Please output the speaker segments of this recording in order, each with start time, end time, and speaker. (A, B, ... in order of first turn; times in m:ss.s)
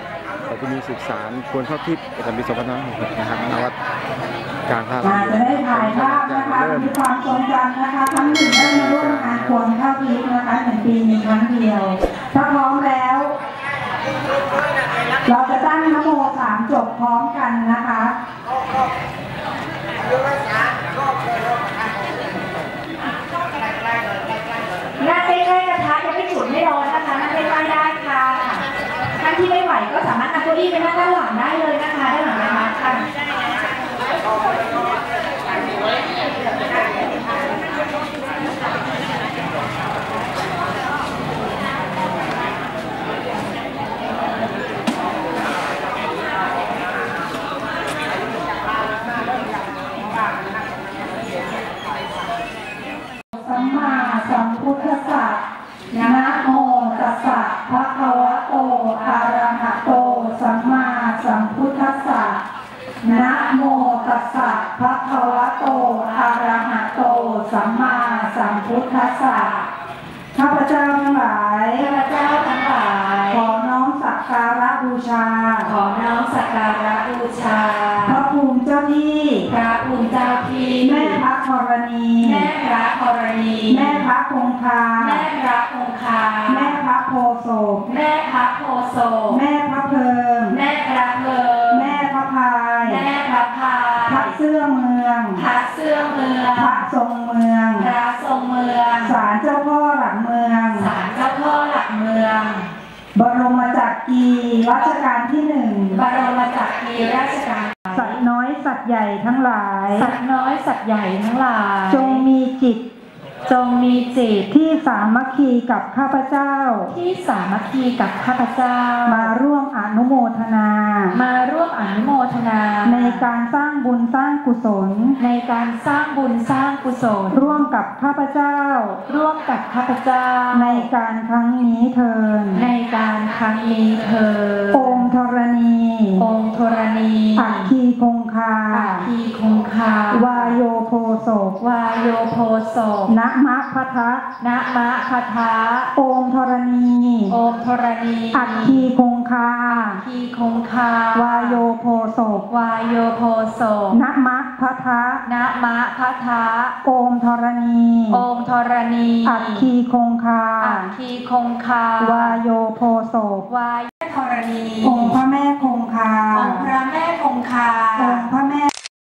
0:00.4-0:03.8 A
0:04.7-0:07.0 A
0:05.0-0:13.3 B
0:08.2-0:09.6 A
0:15.2-0:18.2 B
0:25.0-0:33.0 C
0:53.4-0:55.4 B
0:55.9-0:57.2 C
0:56.0-1:02.4 B
0:58.9-0:59.5 C
1:03.0-1:09.5 B
1:03.0-1:04.6 C
1:05.1-1:09.7 C
1:10.3-1:11.9 B
1:11.8-1:13.5 C
1:13.3-1:15.7 B
1:15.6-1:18.2 C
1:18.0-1:19.5 B
1:19.5-1:21.2 C
1:20.8-1:22.5 B
1:22.2-1:24.1 C
1:23.7-1:25.3 B
1:25.0-1:26.8 C
1:26.5-1:27.9 B
1:27.8-1:29.4 C
1:29.3-1:30.6 B
1:30.5-1:32.0 C
1:31.7-1:33.1 B
1:32.8-1:34.3 C
1:34.0-1:35.4 B
1:35.4-1:36.8 C
1:36.5-1:37.9 B
1:37.8-1:39.2 C
1:39.0-1:40.9 B
1:40.8-1:42.7 C
1:43.2-1:46.0 B
1:45.9-1:48.2 C
1:47.9-1:50.1 B
1:49.9-1:52.2 C
1:51.9-1:52.8 B
1:53.5-1:54.5 C
1:54.5-1:56.9 B
1:56.9-1:59.3 C
1:59.0-2:01.2 B
2:01.1-2:03.2 C
2:02.8-2:05.2 B
2:05.2-2:07.6 C
2:07.3-2:09.0 B
2:09.1-2:10.9 C
2:10.5-2:12.7 B
2:12.6-2:15.1 C
2:14.7-2:16.3 B
2:16.2-2:17.7 C
2:17.4-2:19.1 B
2:18.7-2:20.5 C
2:20.1-2:21.6 B
2:21.6-2:23.2 C
2:23.1-2:24.2 B
2:24.4-2:25.9 C
2:26.0-2:27.4 B
2:27.3-2:28.8 C
2:28.3-2:30.0 B
2:29.7-2:31.6 C
2:31.1-2:32.5 B
2:32.5-2:34.0 C
2:33.9-2:35.2 B
2:35.2-2:36.8 C
2:36.8-2:38.3 B
2:38.1-2:39.7 C
2:39.2-2:40.9 B
2:40.6-2:42.4 C
2:42.0-2:43.5 B
2:43.5-2:45.2 C
2:44.8-2:46.7 B
2:46.3-2:48.3 C
2:48.0-2:48.7 B